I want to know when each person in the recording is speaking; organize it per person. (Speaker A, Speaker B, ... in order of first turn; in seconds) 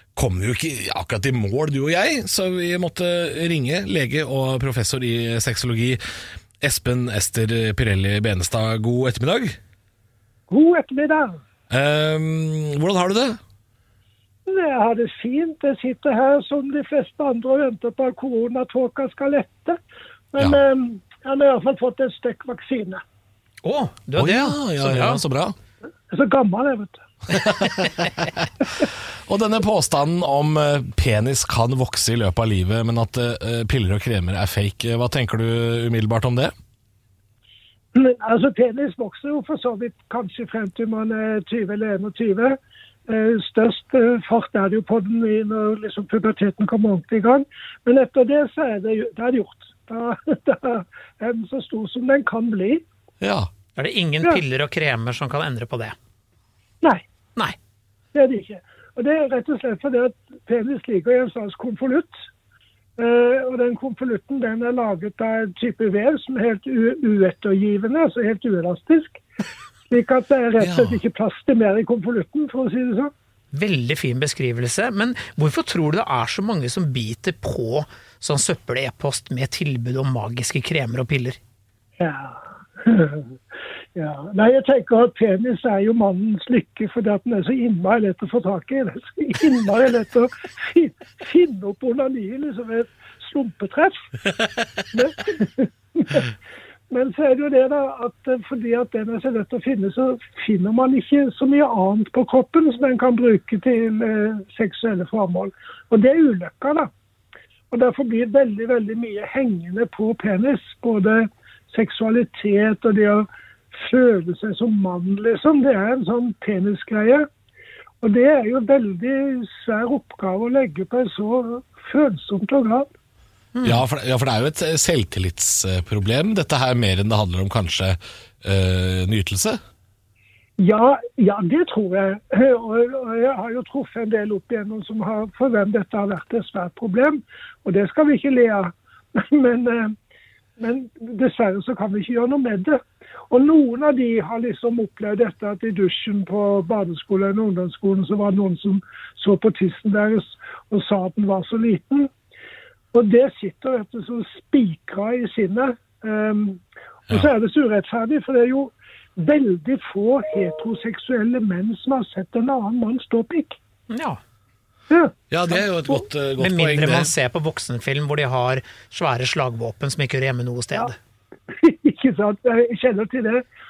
Speaker A: 0.1-6.0, 6.6-9.6, 11.7-13.4, 24.2-25.6, 27.3-36.5, 53.2-53.5, 70.6-71.0, 123.6-129.6, 165.3-167.1
Speaker B: 10.5-11.4, 14.4-19.8, 20.3-23.0, 26.1-27.0, 37.9-52.8, 58.1-62.1, 63.0-69.2, 69.9-73.1, 82.0-83.4, 83.9-94.1, 94.9-96.3, 96.9-106.9, 107.7-117.3, 118.0-122.9, 130.6-139.9, 140.6-152.1, 152.9-163.6, 171.5-173.4
Speaker C: 23.6-25.2, 53.8-56.0, 73.5-81.4, 123.5-123.8, 163.9-164.2, 166.4-170.9